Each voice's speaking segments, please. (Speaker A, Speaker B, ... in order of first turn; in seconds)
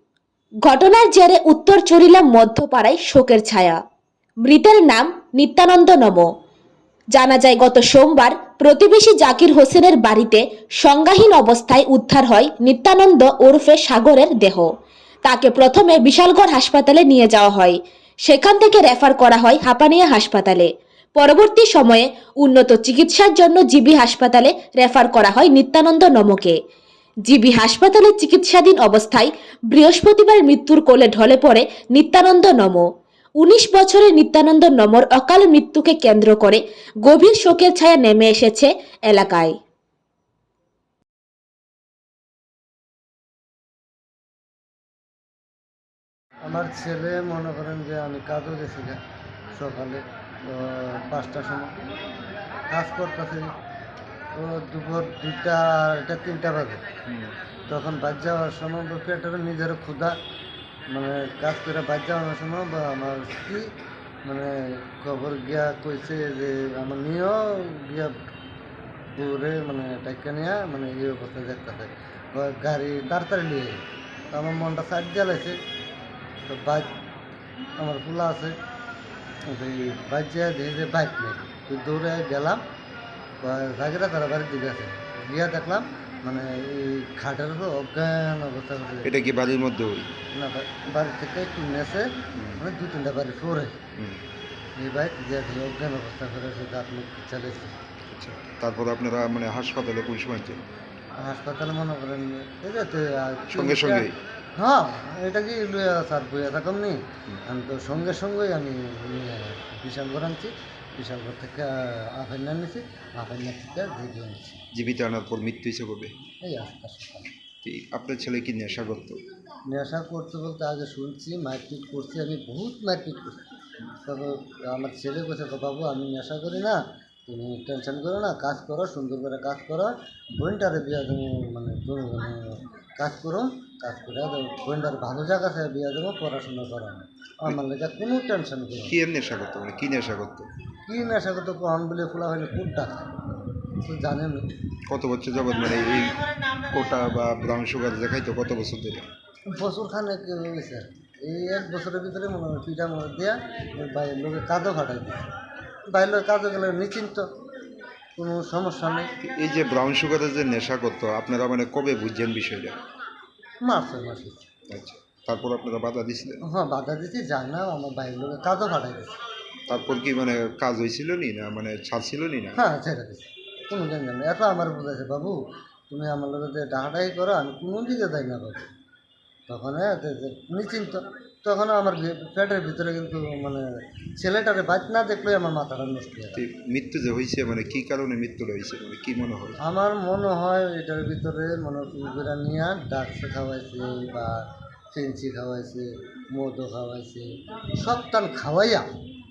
Speaker A: 0.6-3.8, 4.4-6.3, 7.1-14.7, 15.2-26.6, 27.2-32.9, 33.4-39.5
Speaker B: 46.5-49.0, 49.5-51.7, 52.7-53.5, 54.4-56.8, 57.7-60.1, 60.9-63.6, 64.2-68.1, 69.1-75.6, 76.5-76.9, 77.8-78.5, 79.5-82.6, 83.4-89.1, 90.3-93.8, 94.8-97.7, 101.2-114.6, 116.4-117.3, 119.7-123.4, 124.0-139.0, 140.9-143.2, 143.8-144.5, 149.5-155.3, 155.9-157.2, 158.2-159.1, 163.6-164.5, 166.4-169.2, 172.6-178.7, 179.5-183.7, 184.2-186.4, 189.6-198.9
Speaker C: 57.0-57.4, 89.0-90.1, 92.3-92.6, 94.0-94.2, 98.1-100.6, 103.5-104.1, 114.7-116.1, 117.6-119.2, 138.8-140.5, 144.9-149.1, 159.2-162.8, 164.7-166.4, 169.7-172.6, 186.3-189.6